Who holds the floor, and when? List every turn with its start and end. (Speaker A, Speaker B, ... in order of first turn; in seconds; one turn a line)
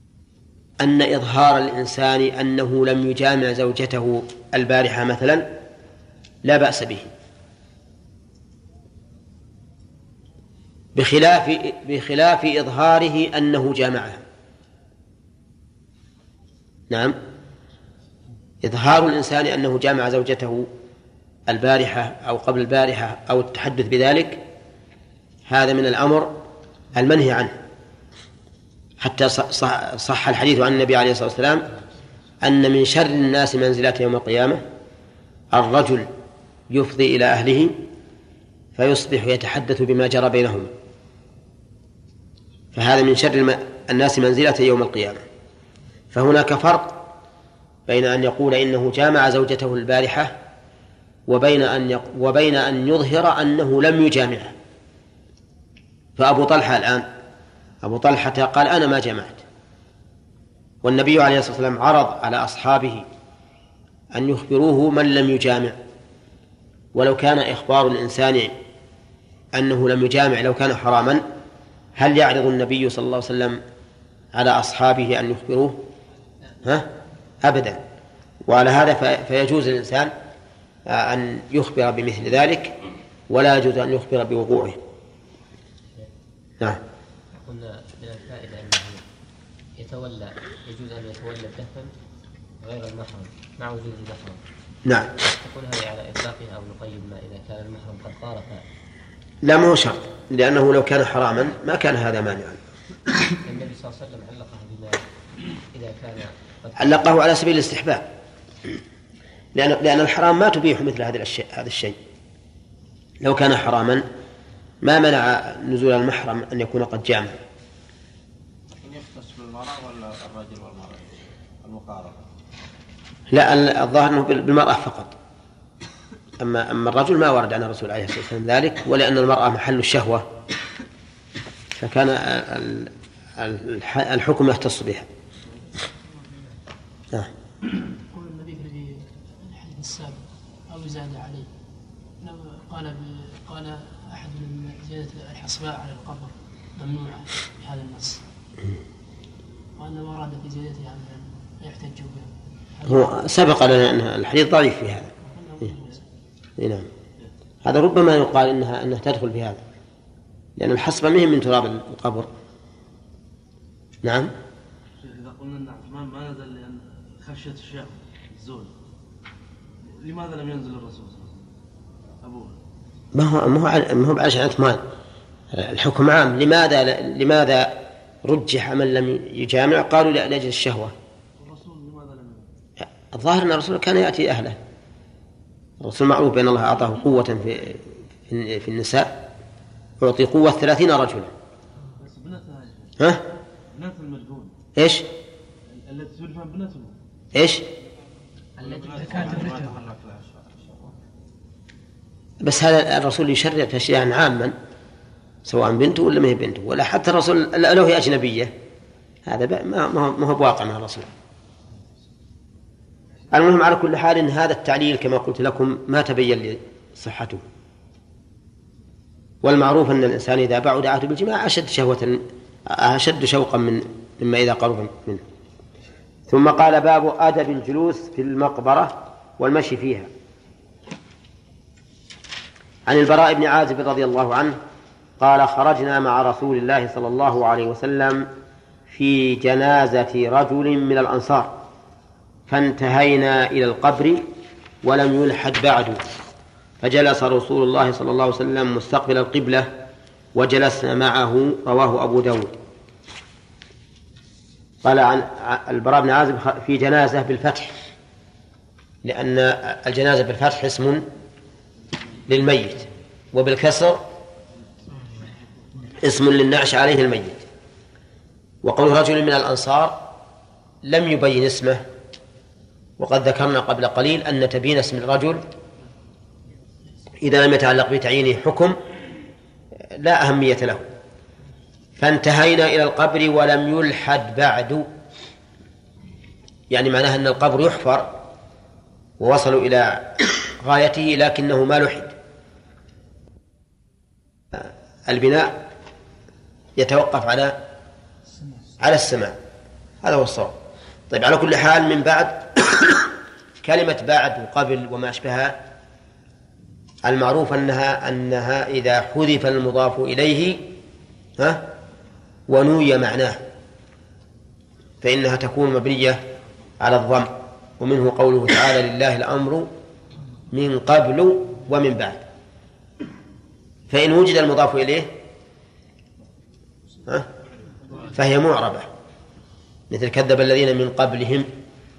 Speaker A: 0.8-5.5
Speaker A: 6.4-7.1
Speaker A: 10.9-14.2
Speaker A: 16.9-17.2
Speaker A: 18.6-20.7
Speaker A: 21.5-24.4
Speaker A: 25.5-26.3
Speaker A: 26.9-27.6
Speaker A: 29.0-31.6
Speaker A: 32.4-34.6
Speaker A: 35.5-36.1
Speaker A: 36.7-37.8
Speaker A: 38.8-40.7
Speaker A: 42.7-45.2
Speaker A: 46.1-47.0
Speaker A: 47.9-50.4
Speaker A: 51.3-54.5
Speaker A: 56.2-57.1
Speaker A: 57.8-59.4
Speaker A: 60.8-63.1
Speaker A: 64.1-65.8
Speaker A: 67.0-68.5
Speaker A: 69.5-71.2
Speaker A: 72.0-73.6
Speaker A: 74.3-75.8
Speaker A: 77.4-77.8
Speaker A: 78.5-80.1
Speaker A: 80.9-82.8
Speaker A: 83.3-84.8
Speaker B: 87.3-89.0
Speaker B: 89.8-91.9
Speaker B: 92.6-94.4
Speaker A: 94.9-95.1
Speaker B: 95.2-98.6
Speaker A: 99.4-102.6
Speaker B: 103.4-105.1
Speaker B: 105.7-107.1
Speaker A: 106.8-108.1
Speaker A: 109.5-112.0
Speaker A: 113.2-114.0
Speaker A: 114.8-117.4
Speaker C: 118.8-122.2
Speaker A: 123.3-125.1
Speaker A: 126.4-130.3
Speaker A: 131.8-135.1
Speaker D: 138.1-141.5
Speaker D: 142.2-148.2
Speaker D: 149.8-153.1
Speaker A: 152.9-155.1
Speaker D: 155.3-156.0
Speaker A: 156.6-156.9
Speaker A: 157.6-159.6
Speaker A: 160.6-162.3
Speaker A: 164.0-164.3
Speaker E: 165.0-168.7
Speaker E: 169.9-171.4
Speaker E: 172.2-172.6
Speaker A: 173.2-174.8
Speaker A: 175.5-180.9
Speaker E: 181.4-182.5
Speaker A: 182.8-184.6
Speaker A: 185.8-189.2
Speaker A: 190.0-191.3
Speaker E: 192.0-192.9
Speaker E: 193.7-194.6
Speaker A: 194.8-195.1
Speaker E: 195.7-196.9
Speaker A: 197.3-197.7
Speaker C: 198.6-201.0
Speaker D: 199.0-199.6
Speaker A: 202.4-204.6
Speaker A: 205.5-208.5
Speaker A: 209.3-211.1
Speaker A: 213.3-217.4
Speaker A: 219.4-225.2
Speaker A: 226.3-230.1
Speaker A: 232.9-234.6
Speaker A: 235.2-238.3
Speaker A: 238.9-241.5
Speaker A: 242.5-244.2
Speaker A: 244.8-246.0
Speaker A: 246.8-249.7
Speaker A: 250.3-252.6
Speaker A: 254.8-257.7
Speaker A: 259.0-261.1
Speaker A: 262.3-264.0
Speaker A: 266.0-267.4
Speaker A: 268.6-270.0
Speaker A: 270.9-271.8
Speaker A: 273.0-275.4
Speaker A: 277.2-278.8
Speaker A: 280.0-280.9
Speaker A: 282.0-284.9
Speaker A: 286.7-288.1
Speaker A: 289.2-292.1
Speaker A: 294.5-295.6
Speaker A: 296.8-297.6
Speaker A: 298.8-299.4
Speaker A: 300.0-300.6
Speaker A: 301.1-303.1
Speaker A: 303.6-305.6
Speaker A: 307.0-310.6
Speaker A: 311.4-311.7
Speaker A: 312.5-313.4
Speaker A: 315.0-316.2
Speaker A: 316.8-319.7
Speaker A: 320.5-322.2
Speaker A: 323.9-325.1
Speaker A: 328.0-328.9
Speaker A: 329.9-331.5